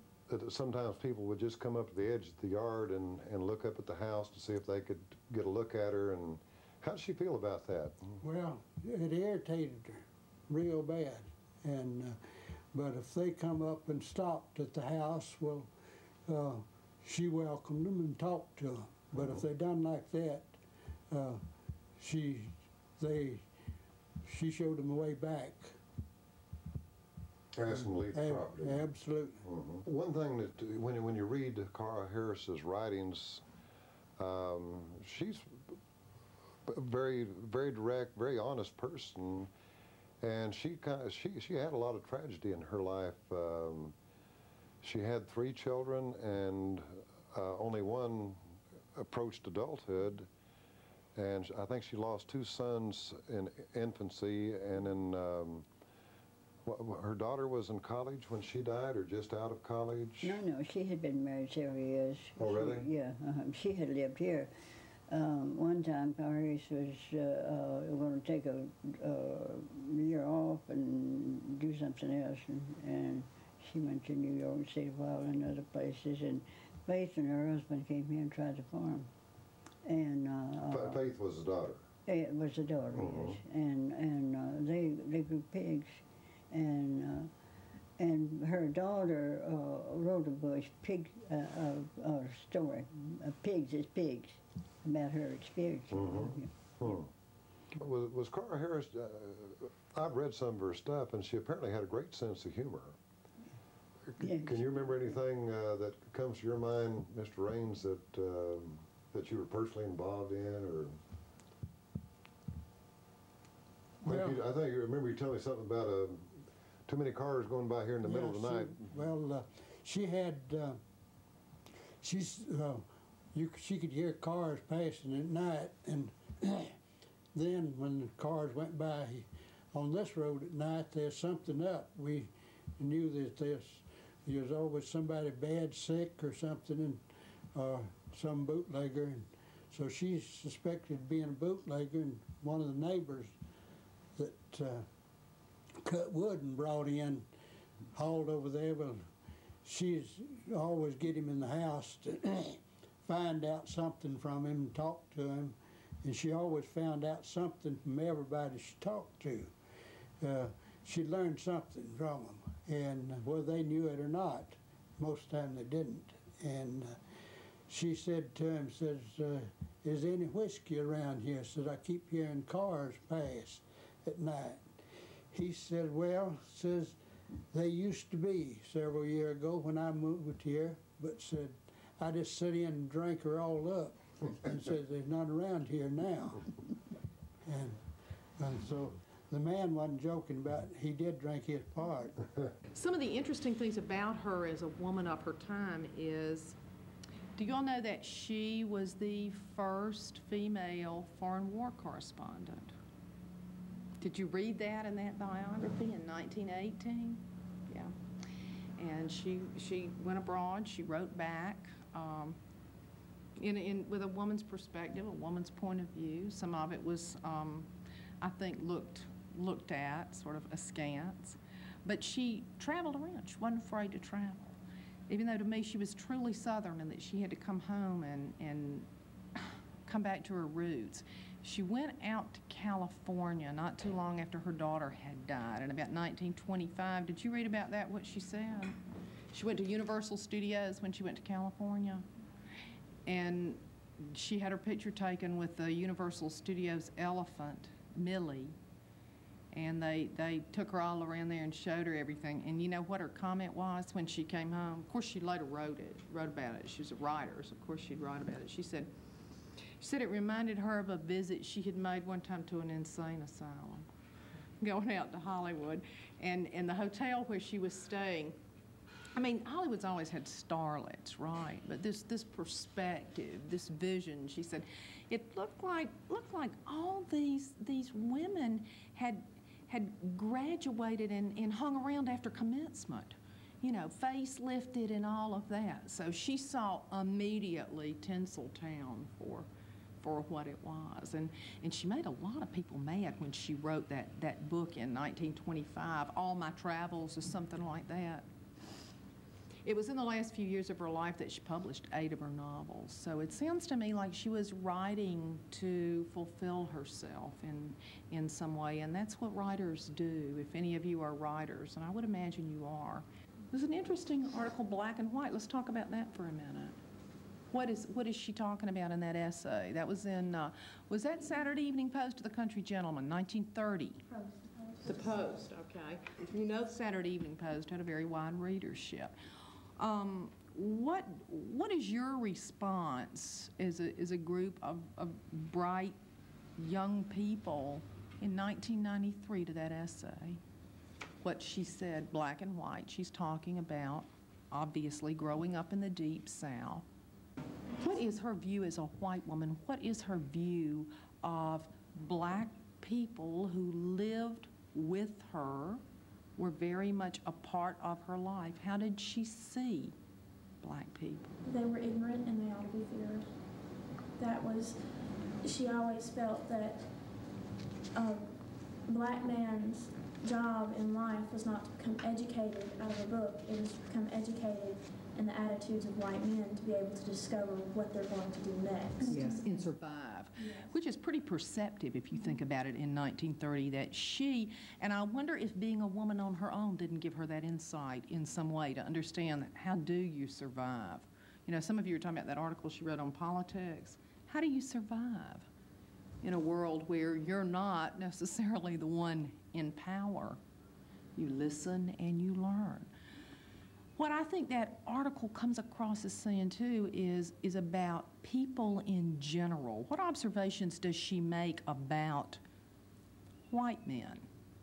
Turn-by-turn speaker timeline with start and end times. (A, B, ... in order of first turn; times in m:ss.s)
0:00.3-0:08.2 A
0:08.2-0:15.7 B
0:16.3-0:20.6 B
0:21.1-0:21.4 B
0:22.0-0:23.5 B
0:24.2-0:25.8 B
0:27.5-0:28.8 A
0:28.1-0:29.4 B
0:29.4-0:33.4 A
0:34.2-0:35.8 A
0:36.7-0:39.5 A
0:40.2-0:44.0 A
0:44.8-0:48.4 A
0:49.0-0:50.3 A
0:51.2-0:55.7 A
0:56.6-1:00.4 A
1:00.2-1:04.5 C
1:02.4-1:02.9 A
1:05.1-1:19.1 C
1:19.8-1:21.0 C
1:20.7-1:21.9 A
1:22.1-1:27.3 C
1:23.0-1:23.4 A
1:28.0-1:36.5 C
1:35.9-1:37.1 A
1:37.8-1:43.0 A
1:44.1-1:51.0 A
1:44.2-1:45.2 C
1:54.0-1:54.4 B
1:54.0-1:58.9 A
1:58.0-2:00.8 B
2:02.0-2:06.8 B
2:07.3-2:17.0 B
2:17.5-2:23.4 B
2:24.2-2:24.9 B
2:25.8-2:27.3 B
2:27.9-2:29.1 B
2:29.6-2:39.5 B
2:40.2-2:47.0 B
2:47.7-2:54.7 B
2:55.3-2:57.0 B
2:57.5-3:06.5 B
3:07.4-3:07.8 B
3:08.4-3:12.2 B
3:12.7-3:16.6 D
3:17.4-3:22.7 D
3:24.0-3:28.0 D
3:28.8-3:32.4 D
3:33.4-3:37.7 D
3:38.2-3:44.6 D
3:45.1-3:58.8 D
3:59.3-4:02.1 D
4:03.1-4:08.6 D
4:09.5-4:18.9 D
4:19.8-4:23.9 D
4:24.6-4:28.4 D
4:29.1-4:49.5 D
4:50.0-4:58.3 D
4:59.6-5:16.8 D
5:17.5-5:24.0 D
5:24.8-5:29.1 D
5:29.8-5:36.0 D
5:36.6-5:40.4 D
5:41.2-5:46.8 D
5:47.8-5:55.8 D
5:56.4-6:00.0 D
6:00.6-6:01.3 D
6:01.5-6:03.3 E
6:04.2-6:04.8 E
6:05.4-6:06.9 E
6:08.0-6:08.3 E
6:08.9-6:19.4 E
6:19.1-6:35.5 D
6:36.2-6:40.4 D
6:41.2-6:42.9 D
6:44.0-6:52.4 D
6:53.5-6:54.3 D